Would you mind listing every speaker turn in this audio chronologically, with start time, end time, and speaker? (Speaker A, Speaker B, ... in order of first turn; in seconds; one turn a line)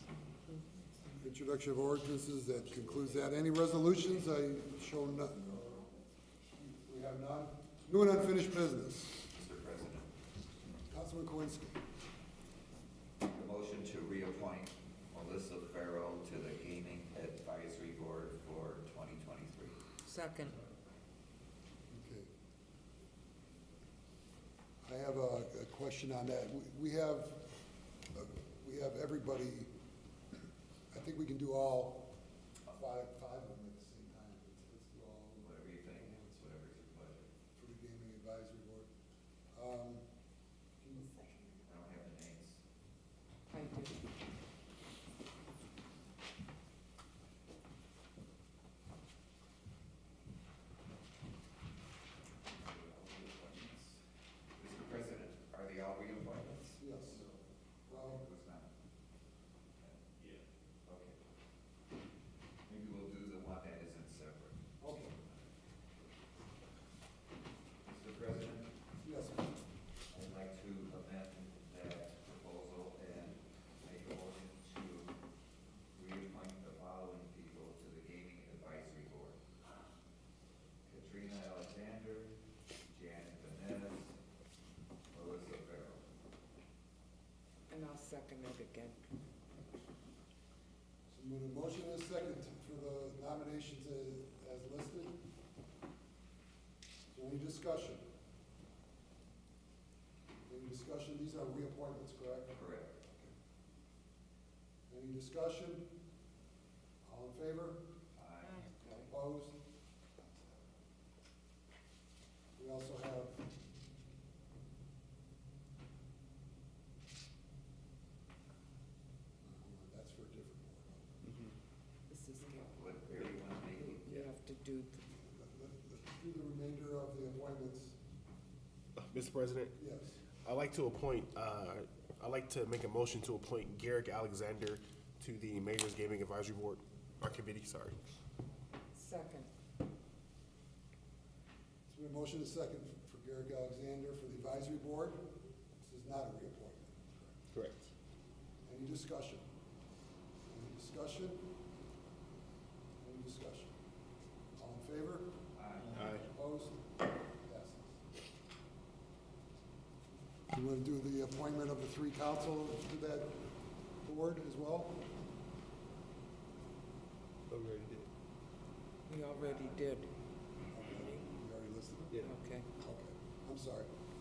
Speaker A: 1.2-5.7
Speaker B: 2.9-3.2
Speaker A: 6.5-9.3
Speaker B: 9.3-10.1
Speaker A: 10.9-11.8
Speaker B: 13.2-19.8
Speaker C: 20.0-20.6
Speaker A: 21.9-22.3
Speaker A: 24.8-27.5
Speaker A: 28.1-29.7
Speaker A: 30.9-32.1
Speaker A: 32.7-36.5
Speaker B: 35.4-37.3
Speaker A: 37.5-38.9
Speaker A: 39.5-40.1
Speaker A: 40.8-41.3
Speaker B: 41.6-42.6
Speaker C: 43.5-44.0
Speaker B: 52.4-54.0
Speaker B: 54.6-58.7
Speaker A: 56.8-57.2
Speaker A: 57.9-58.2
Speaker B: 59.8-60.3
Speaker B: 60.8-61.2
Speaker B: 62.6-65.5
Speaker A: 64.8-65.2
Speaker B: 67.8-68.7
Speaker A: 69.0-69.5
Speaker B: 70.1-75.1
Speaker B: 75.9-79.4
Speaker B: 80.8-82.3
Speaker B: 82.9-84.1
Speaker B: 85.1-86.0
Speaker C: 87.7-89.0
Speaker A: 91.1-95.2
Speaker A: 97.1-98.0
Speaker A: 100.5-103.3
Speaker B: 102.5-103.0
Speaker A: 104.9-105.9
Speaker A: 107.0-107.8
Speaker B: 108.1-108.7
Speaker C: 108.5-109.1
Speaker A: 109.0-109.6
Speaker A: 112.5-113.5
Speaker A: 119.4-121.2
Speaker C: 122.1-125.0
Speaker B: 122.7-124.3
Speaker A: 125.2-128.0
Speaker D: 129.0-129.7
Speaker A: 129.8-130.2
Speaker D: 130.4-138.0
Speaker C: 138.9-139.5
Speaker A: 141.9-147.4
Speaker D: 147.5-147.9
Speaker A: 148.6-149.4
Speaker A: 150.5-151.6
Speaker A: 153.0-153.8
Speaker A: 154.6-156.9
Speaker B: 155.6-156.1
Speaker D: 155.9-156.2
Speaker A: 157.4-158.0
Speaker A: 160.5-163.4
Speaker A: 164.0-165.0
Speaker D: 167.5-168.0
Speaker C: 169.1-170.1
Speaker A: 170.7-172.2
Speaker C: 172.2-172.7
Speaker A: 172.8-173.9